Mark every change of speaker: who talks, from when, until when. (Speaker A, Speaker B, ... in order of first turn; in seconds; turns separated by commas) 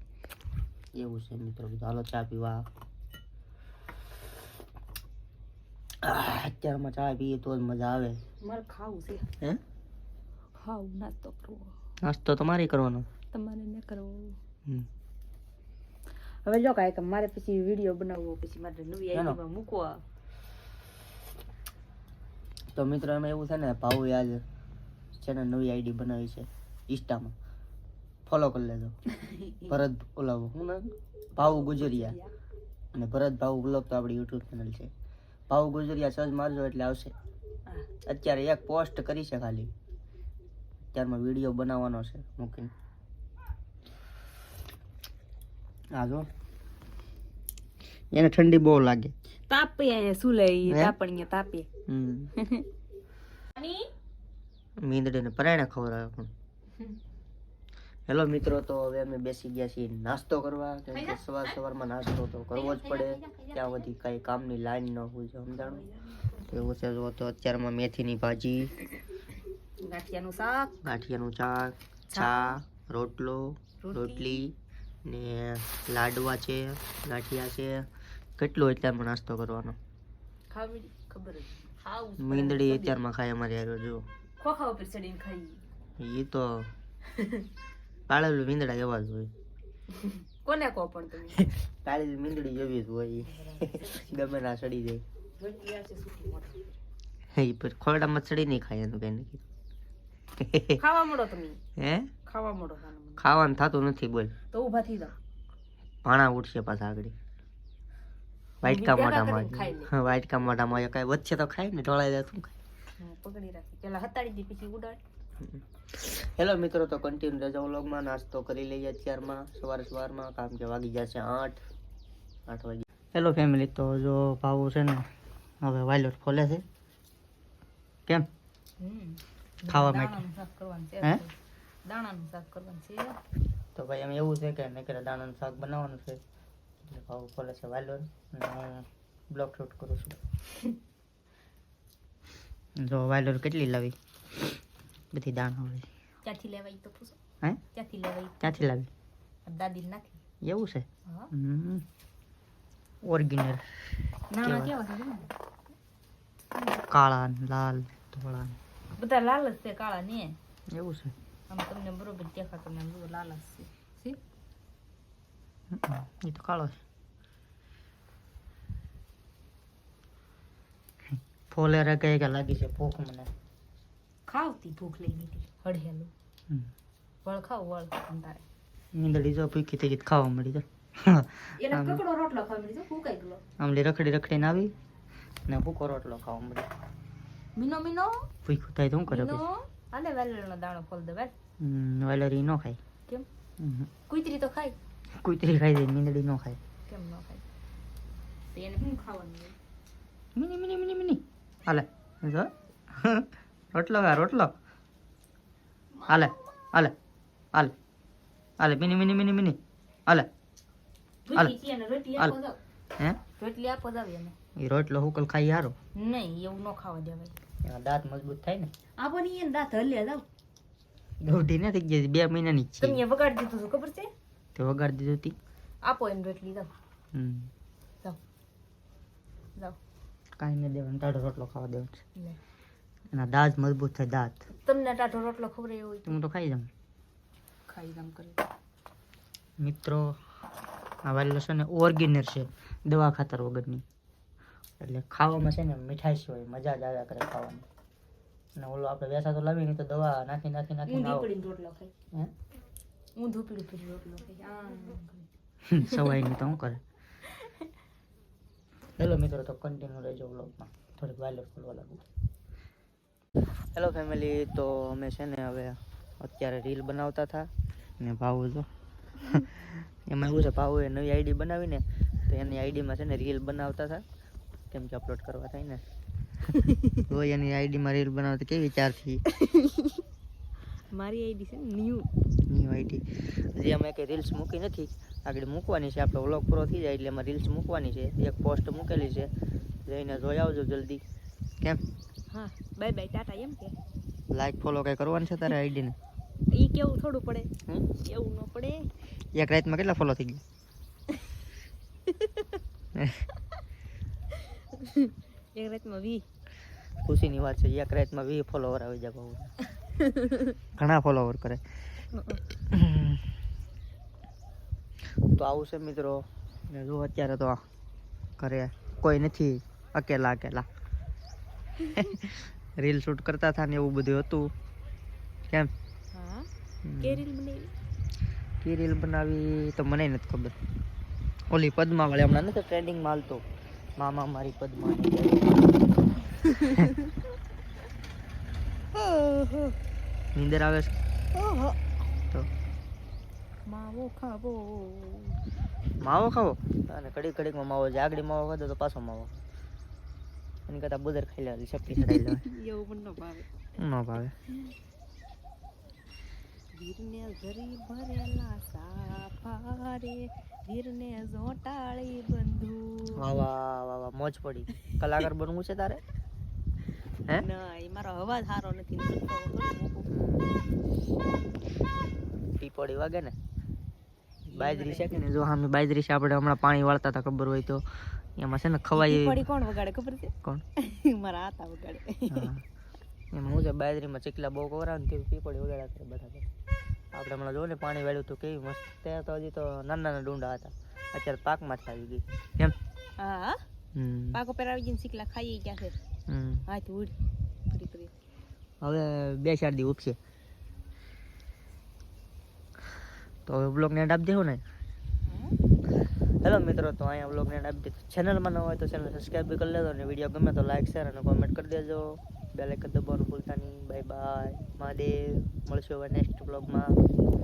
Speaker A: 1.0-2.6, Speaker A: 6.0-8.2, Speaker B: 8.4-9.3, Speaker B: 10.6-11.7, Speaker A: 12.0-13.1, Speaker B: 13.3-14.4, Speaker B: 16.4-20.0, Speaker A: 19.1-19.4, Speaker A: 22.8-24.4, Speaker A: 25.1-27.4, Speaker A: 28.3-28.9, Speaker B: 29.1-29.8, Speaker A: 29.7-32.2, Speaker B: 31.4-32.3, Speaker A: 32.9-34.9, Speaker A: 35.5-37.1, Speaker A: 38.0-39.7, Speaker A: 40.9-42.7, Speaker A: 46.0-46.3, Speaker A: 48.1-49.1, Speaker B: 49.5-51.7, Speaker A: 50.6-51.0, Speaker A: 51.9-52.3, Speaker B: 52.4-52.7, Speaker B: 53.6-53.9, Speaker A: 54.8-56.3, Speaker A: 58.1-65.9, Speaker B: 62.6-63.9, Speaker B: 65.6-66.7, Speaker A: 66.4-68.7, Speaker B: 69.8-70.8, Speaker A: 70.8-79.8, Speaker B: 72.1-72.6, Speaker B: 73.8-74.4, Speaker B: 80.5-83.0, Speaker A: 82.2-84.0, Speaker B: 84.4-85.6, Speaker A: 86.0-86.7, Speaker A: 88.1-89.3, Speaker B: 89.9-91.4, Speaker A: 91.3-95.0, Speaker B: 93.2-94.3, Speaker B: 95.4-96.7, Speaker A: 97.3-99.5, Speaker A: 100.4-100.8, Speaker B: 100.8-101.6, Speaker A: 101.8-102.1, Speaker B: 102.2-103.3, Speaker A: 103.2-104.3, Speaker B: 104.5-105.2, Speaker A: 106.0-107.2, Speaker A: 108.6-112.5, Speaker B: 108.6-109.9, Speaker B: 113.0-115.0, Speaker A: 115.4-121.7, Speaker A: 122.5-125.1, Speaker A: 125.6-126.7, Speaker B: 128.8-133.2, Speaker A: 129.7-130.3, Speaker A: 133.8-136.2, Speaker A: 136.8-140.2, Speaker A: 142.8-144.0, Speaker A: 145.1-145.9, Speaker B: 146.2-147.2, Speaker B: 147.7-148.7, Speaker A: 148.4-148.9, Speaker B: 149.4-150.2, Speaker A: 150.4-151.8, Speaker A: 153.0-153.6, Speaker B: 154.3-155.3, Speaker A: 154.4-154.8, Speaker A: 156.8-158.6, Speaker B: 158.9-160.4, Speaker A: 160.7-161.2, Speaker B: 161.5-164.2, Speaker A: 165.7-166.8, Speaker A: 171.1-173.3, Speaker B: 174.3-176.1, Speaker B: 177.2-178.4, Speaker A: 178.9-182.0, Speaker B: 181.6-183.4, Speaker A: 183.6-184.7, Speaker A: 185.5-186.7, Speaker B: 187.6-188.3, Speaker A: 188.4-189.4, Speaker B: 189.1-191.3, Speaker A: 191.6-192.8, Speaker A: 193.6-193.9, Speaker B: 194.1-194.8, Speaker A: 195.2-196.6, Speaker B: 196.9-197.4, Speaker B: 198.5-199.6, Speaker A: 200.3-204.5, Speaker B: 206.0-206.4, Speaker A: 206.1-206.9, Speaker A: 208.6-210.3, Speaker B: 211.3-212.6, Speaker B: 213.4-214.4, Speaker A: 214.6-215.8, Speaker B: 215.9-217.4, Speaker A: 217.6-218.7, Speaker B: 219.0-220.2, Speaker A: 221.2-223.0, Speaker B: 222.8-224.1, Speaker A: 224.6-225.4, Speaker B: 225.8-226.8, Speaker A: 227.1-227.5, Speaker A: 230.4-232.0, Speaker A: 233.1-234.4, Speaker B: 234.5-236.2, Speaker A: 236.1-236.7, Speaker B: 237.7-238.4, Speaker A: 239.6-240.2, Speaker A: 241.1-243.8, Speaker A: 244.8-247.7, Speaker A: 248.6-251.3, Speaker B: 250.9-251.9, Speaker B: 253.2-255.3, Speaker A: 255.7-256.8, Speaker B: 255.8-256.2, Speaker A: 259.0-262.0, Speaker A: 263.8-268.7, Speaker A: 269.2-274.0, Speaker A: 274.7-275.8, Speaker A: 276.9-279.2, Speaker B: 280.9-282.1, Speaker A: 282.5-289.3, Speaker A: 289.9-291.0, Speaker B: 292.3-293.8, Speaker A: 294.3-296.0, Speaker B: 296.5-298.9, Speaker A: 297.7-298.0, Speaker A: 299.3-300.4, Speaker A: 302.9-303.2, Speaker B: 304.7-306.2, Speaker A: 307.0-309.5, Speaker B: 310.0-310.5, Speaker A: 310.8-311.6, Speaker A: 312.6-313.3, Speaker A: 315.3-317.6, Speaker A: 318.4-320.7, Speaker A: 321.8-324.5, Speaker B: 326.1-326.5, Speaker A: 326.8-327.3, Speaker B: 327.0-327.7, Speaker A: 328.6-330.6, Speaker A: 331.5-333.4, Speaker A: 334.0-335.7, Speaker A: 340.4-341.0, Speaker B: 341.4-341.7, Speaker B: 343.7-345.4, Speaker A: 346.0-349.4, Speaker A: 350.7-352.4, Speaker B: 351.9-353.4, Speaker A: 353.8-354.3, Speaker B: 356.7-363.4, Speaker A: 363.2-366.0, Speaker B: 367.4-370.1, Speaker A: 370.1-370.5, Speaker A: 372.6-373.3, Speaker A: 374.5-379.5, Speaker B: 374.5-375.2, Speaker B: 378.9-382.5, Speaker A: 382.3-382.6, Speaker A: 383.3-386.5, Speaker A: 387.1-392.8, Speaker B: 393.2-393.6, Speaker A: 393.9-394.4, Speaker B: 394.3-396.0, Speaker A: 396.3-396.7, Speaker B: 396.7-397.1, Speaker B: 397.7-398.1, Speaker A: 398.8-400.2, Speaker A: 403.5-404.6, Speaker B: 405.3-405.6, Speaker A: 406.4-417.0